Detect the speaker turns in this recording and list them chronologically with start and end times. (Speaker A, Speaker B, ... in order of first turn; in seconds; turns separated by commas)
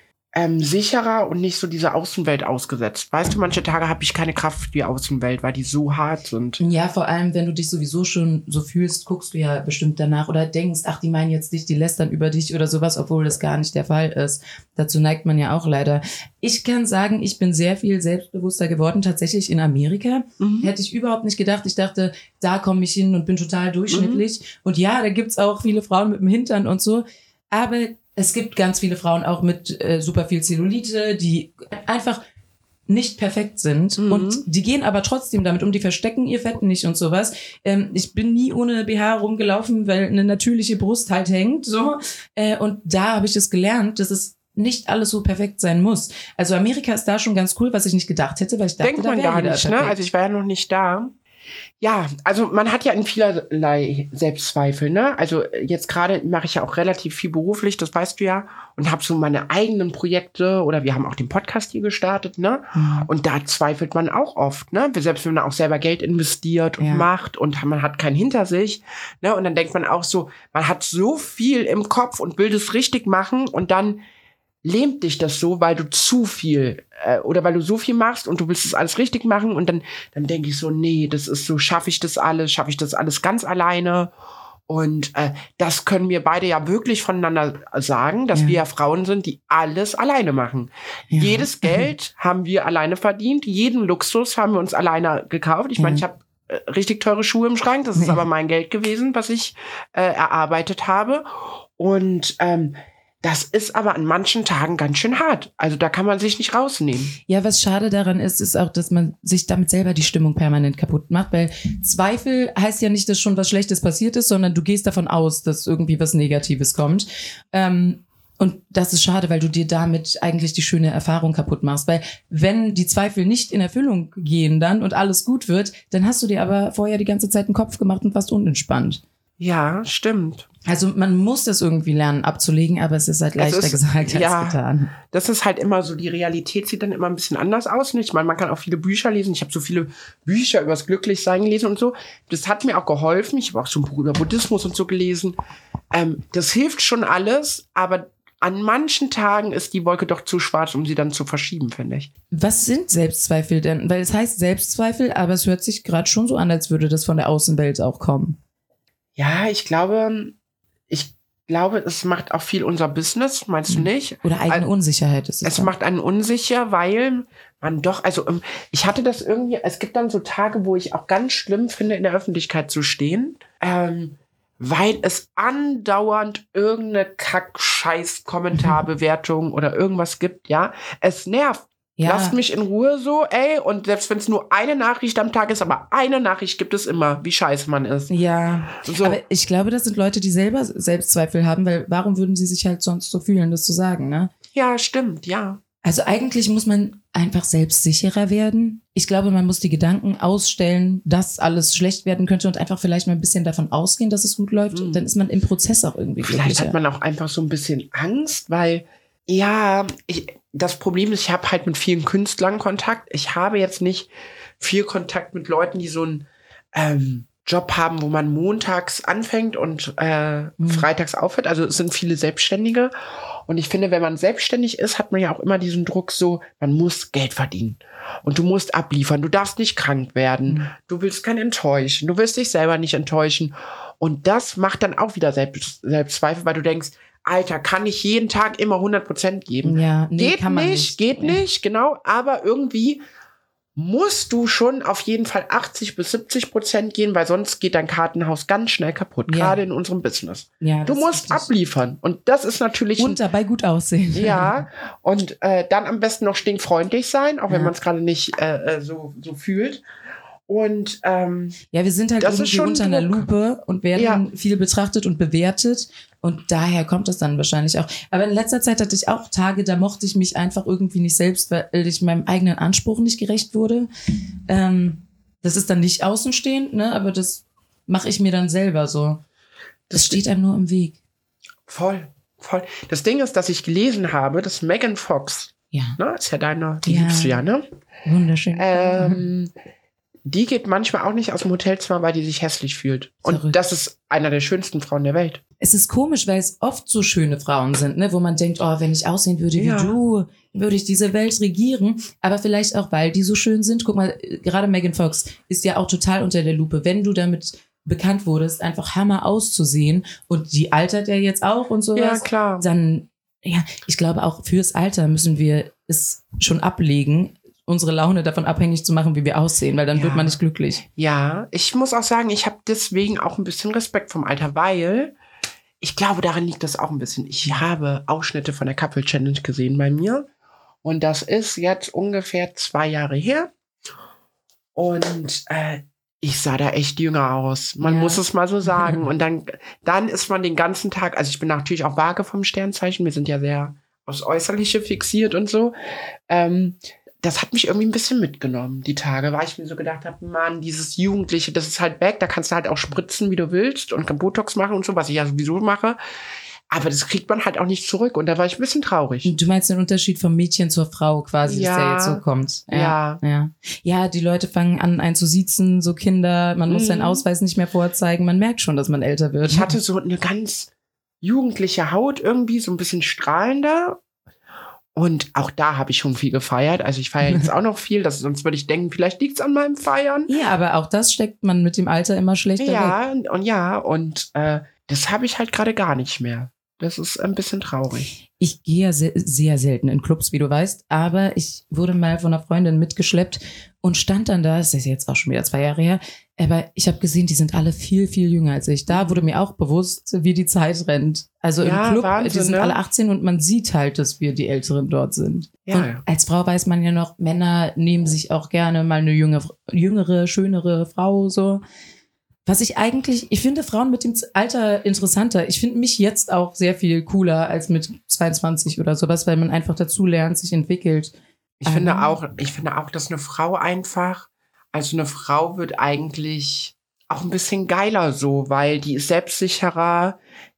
Speaker A: 0.3-6.6, Speaker B: 6.6-32.2, Speaker A: 20.4-20.7, Speaker A: 23.9-24.2, Speaker B: 32.9-50.0, Speaker A: 34.0-34.4, Speaker A: 48.8-51.1, Speaker A: 51.8-74.0, Speaker B: 62.7-63.1, Speaker B: 66.8-67.1, Speaker A: 74.6-84.1, Speaker A: 84.7-107.1, Speaker B: 91.1-91.9, Speaker B: 95.8-96.0, Speaker B: 98.0-98.2, Speaker B: 107.3-129.0, Speaker A: 129.4-130.4, Speaker B: 130.7-134.9, Speaker A: 133.4-145.3, Speaker A: 145.9-152.1, Speaker B: 152.3-158.4, Speaker A: 159.2-160.3, Speaker A: 160.9-164.7, Speaker B: 163.7-165.7, Speaker A: 165.4-188.1, Speaker B: 182.0-182.4, Speaker B: 188.1-194.3, Speaker A: 188.7-189.2, Speaker A: 194.5-195.6, Speaker B: 195.8-206.8, Speaker A: 204.7-205.0, Speaker A: 206.2-222.9, Speaker B: 220.6-220.9, Speaker A: 223.5-243.0, Speaker B: 239.6-241.4, Speaker A: 243.8-253.2, Speaker B: 249.3-249.6, Speaker B: 250.6-251.5, Speaker B: 253.0-254.6, Speaker A: 254.1-259.8, Speaker A: 260.5-261.6, Speaker B: 261.7-273.9, Speaker A: 262.2-263.2, Speaker A: 263.9-264.2, Speaker B: 274.5-279.2, Speaker A: 279.9-280.2, Speaker B: 279.9-281.0, Speaker A: 281.7-287.6, Speaker B: 285.7-286.0, Speaker B: 286.9-287.4, Speaker B: 288.1-289.2, Speaker A: 288.5-289.5, Speaker A: 290.2-295.4, Speaker B: 293.2-293.6, Speaker B: 295.6-320.8, Speaker A: 299.6-299.9, Speaker A: 311.9-312.6, Speaker A: 319.9-320.4, Speaker A: 320.9-325.1, Speaker A: 325.8-330.2, Speaker A: 330.8-333.5, Speaker A: 334.7-345.7, Speaker B: 337.8-339.0, Speaker A: 346.3-356.0, Speaker A: 356.7-359.3, Speaker B: 359.2-369.7, Speaker A: 361.4-363.2, Speaker A: 366.7-367.2, Speaker A: 369.5-370.7, Speaker A: 371.2-374.0, Speaker A: 374.9-380.3, Speaker B: 380.3-382.9, Speaker A: 382.6-388.1, Speaker B: 388.4-411.6, Speaker A: 398.9-399.2, Speaker A: 401.6-402.8, Speaker A: 405.6-406.0, Speaker B: 412.4-421.1, Speaker A: 421.6-430.2, Speaker B: 421.6-422.2